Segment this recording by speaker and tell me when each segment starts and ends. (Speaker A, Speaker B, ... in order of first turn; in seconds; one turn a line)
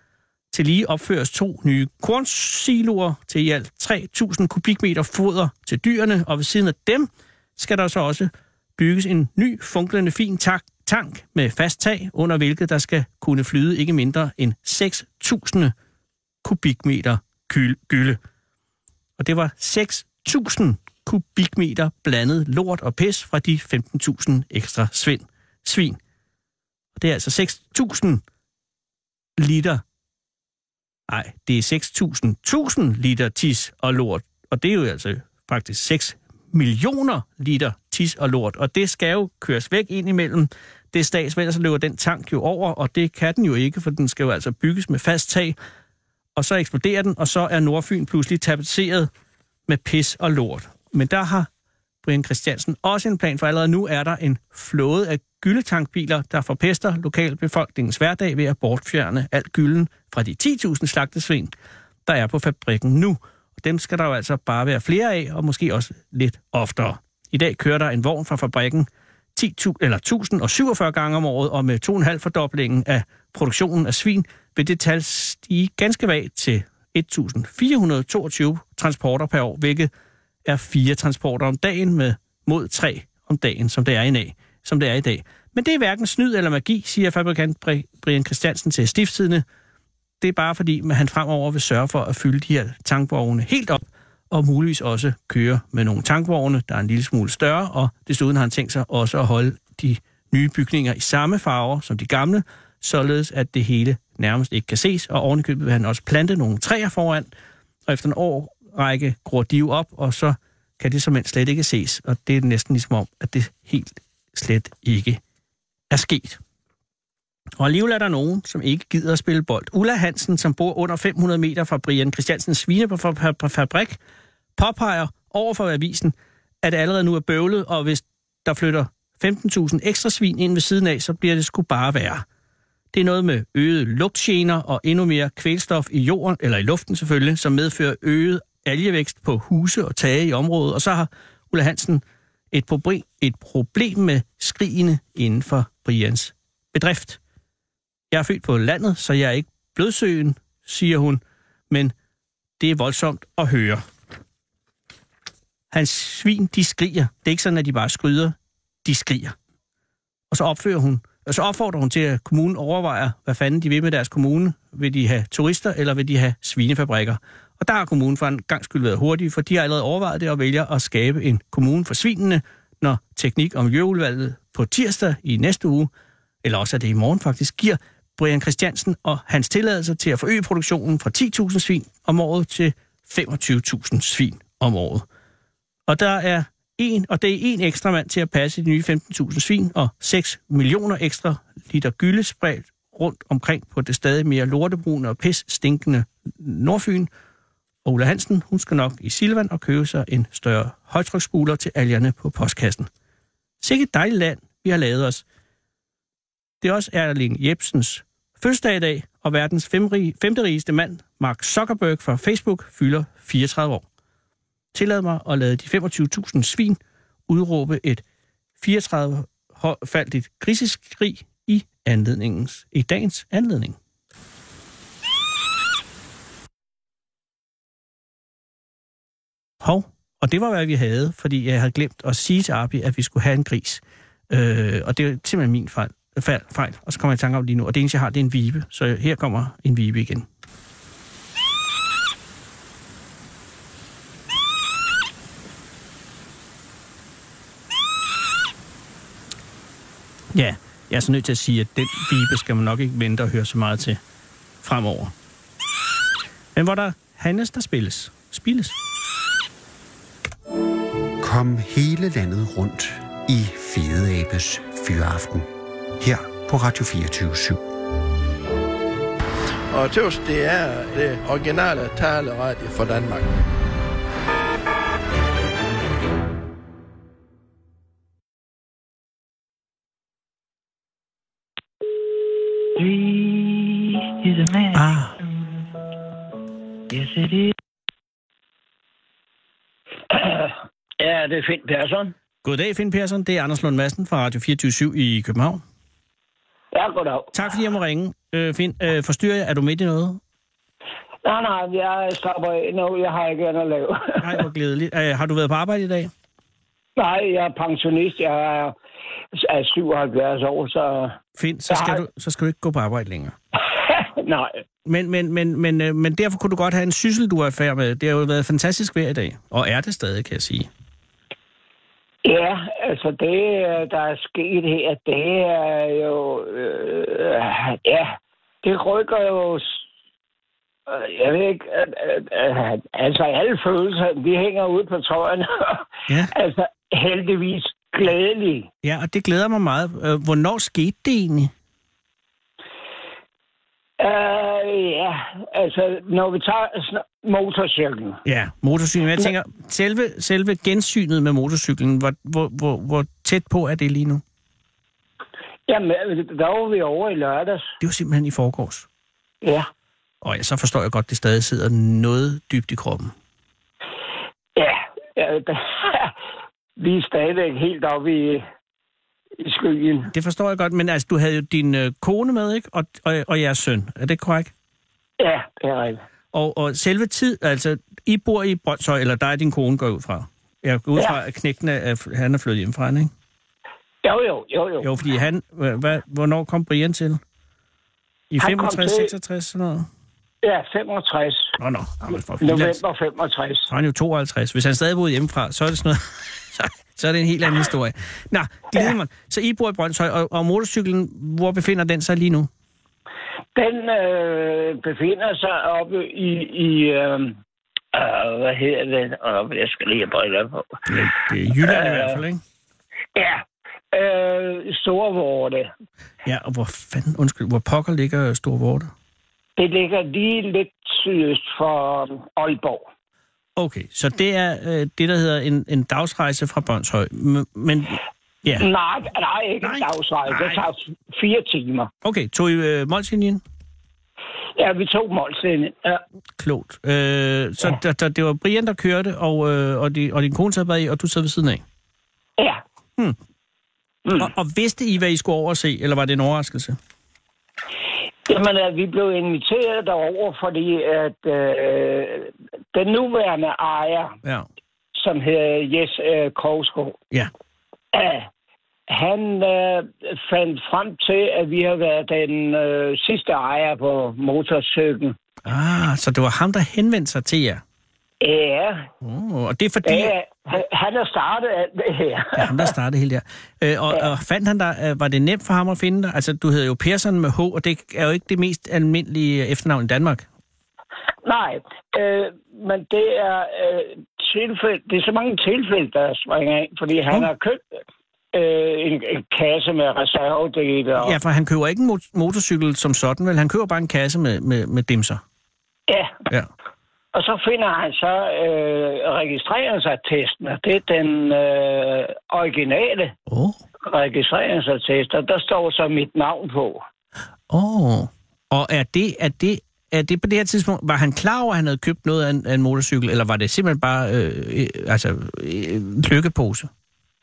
Speaker A: 0.5-15.7
Speaker A: 16.4-18.2
Speaker A: 19.2-26.0
Speaker A: 27.0-28.2
Speaker A: 29.4-29.8
Speaker A: 31.1-45.6
Speaker A: 46.4-49.1
Speaker A: 49.7-51.5
Speaker A: 52.0-61.5
Speaker A: 62.1-79.9
Speaker A: 80.5-89.5
Speaker A: 90.2-107.3
Speaker A: 107.9-115.2
Speaker A: 115.9-116.4
Speaker A: 117.6-124.0
Speaker A: 124.6-132.2
Speaker A: 132.9-147.2
Speaker A: 148.1-151.9
Speaker A: 152.6-153.8
Speaker A: 155.7-159.4
Speaker A: 160.3-175.9
Speaker A: 176.4-185.1
Speaker A: 185.9-197.1
Speaker A: 197.8-202.9
Speaker A: 203.6-205.2
Speaker A: 206.6-213.8
Speaker A: 214.7-218.0
Speaker A: 218.6-223.8
Speaker A: 229.6-240.3
Speaker A: 250.3-254.0
Speaker A: 254.6-255.1
Speaker A: 256.6-258.8
Speaker B: 261.2-265.5
Speaker B: 266.0-267.6
Speaker C: 269.7-273.3
Speaker D: 282.8-284.8
Speaker A: 284.7-285.1
Speaker D: 286.9-287.5
Speaker E: 290.1-292.1
Speaker A: 292.4-295.6
Speaker E: 296.7-297.4
Speaker A: 297.3-300.2
Speaker E: 301.2-304.4
Speaker A: 304.2-306.1
Speaker E: 307.0-308.8
Speaker E: 309.4-312.0
Speaker A: 311.4-313.4
Speaker E: 313.9-314.5
Speaker A: 314.9-320.7
Speaker E: 322.2-329.8
Speaker E: 330.9-338.7
Speaker A: 338.8-341.5
Speaker E: 344.0-348.2
Speaker A: 348.2-354.2
Speaker E: 355.7-357.7
Speaker A: 357.8-358.9
Speaker E: 359.4-359.7
Speaker A: 360.2-363.1
Speaker E: 364.6-366.1
Speaker E: 366.8-368.5
Speaker E: 369.4-370.1
Speaker A: 370.1-374.5
Speaker E: 375.2-376.0
Speaker A: 376.3-383.1
Speaker E: 384.0-384.9
Speaker A: 384.8-387.2
Speaker A: 388.3-389.9
Speaker E: 388.4-389.1
Speaker E: 390.4-391.6
Speaker A: 391.6-392.8
Speaker E: 392.4-393.7
Speaker A: 393.7-402.5
Speaker E: 403.6-407.4
Speaker E: 407.9-410.9
Speaker A: 410.9-412.4
Speaker E: 411.6-412.2
Speaker E: 413.1-415.7
Speaker A: 416.2-418.9
Speaker E: 419.6-422.9
Speaker A: 423.6-428.7
Speaker E: 428.6-431.9
Speaker A: 429.6-430.6
Speaker A: 432.0-433.4
Speaker E: 434.6-436.0
Speaker A: 436.4-441.6
Speaker A: 444.2-446.8
Speaker E: 448.3-454.2
Speaker E: 454.9-457.0
Speaker E: 457.9-458.3
Speaker E: 458.9-465.2
Speaker A: 465.4-467.6
Speaker E: 468.2-468.9
Speaker A: 469.0-470.1
Speaker E: 469.8-472.7
Speaker A: 472.4-480.3
Speaker E: 481.2-487.6
Speaker E: 488.3-491.2
Speaker A: 491.0-495.2
Speaker E: 495.9-496.2
Speaker E: 497.1-503.1
Speaker A: 503.3-503.6
Speaker E: 503.8-506.8
Speaker A: 507.5-516.7